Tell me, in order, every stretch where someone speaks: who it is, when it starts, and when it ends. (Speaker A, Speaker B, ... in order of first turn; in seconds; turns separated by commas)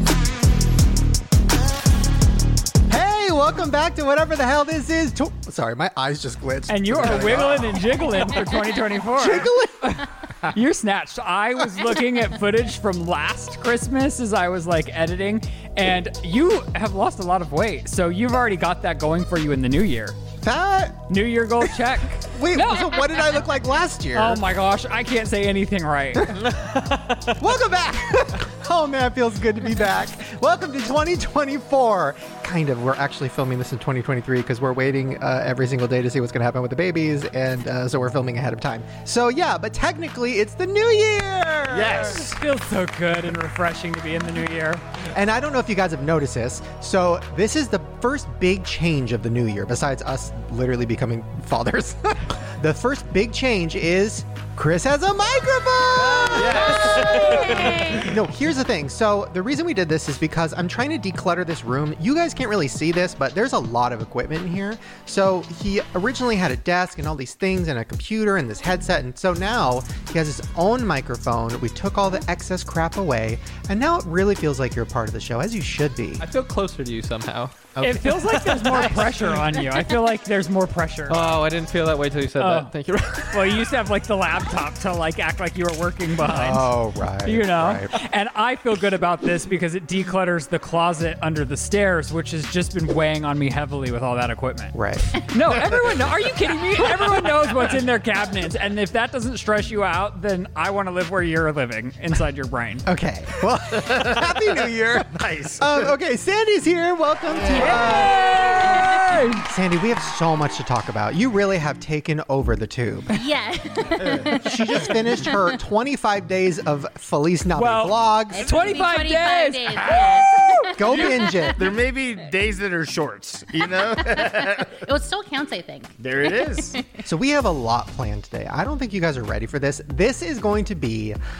Speaker A: 2.9-8.2, Speaker B: 6.7-20.2, Speaker A: 9.1-10.0, Speaker A: 20.4-21.1, Speaker B: 21.1-23.1, Speaker A: 21.6-24.4, Speaker B: 24.1-26.4, Speaker A: 26.1-26.6, Speaker A: 27.3-42.3, Speaker C: 41.7-42.4, Speaker B: 42.2-44.8, Speaker A: 45.1-76.2, Speaker C: 56.2-57.9, Speaker D: 57.2-58.0, Speaker E: 76.2-77.6, Speaker A: 77.8-79.4, Speaker B: 77.8-81.2, Speaker E: 81.1-83.7, Speaker B: 82.4-82.7, Speaker B: 83.3-94.7, Speaker A: 86.2-87.9, Speaker A: 94.7-95.7, Speaker B: 95.3-102.9, Speaker A: 102.8-108.8, Speaker C: 103.8-104.4, Speaker C: 105.0-105.9, Speaker C: 107.3-108.0, Speaker B: 107.6-109.4, Speaker A: 109.5-113.1, Speaker D: 113.1-115.5, Speaker A: 114.3-118.5, Speaker B: 117.5-119.9, Speaker D: 118.3-121.6, Speaker C: 119.8-120.2, Speaker A: 120.8-121.6, Speaker C: 121.5-124.8, Speaker D: 123.7-126.9, Speaker C: 126.0-126.8, Speaker A: 127.0-131.2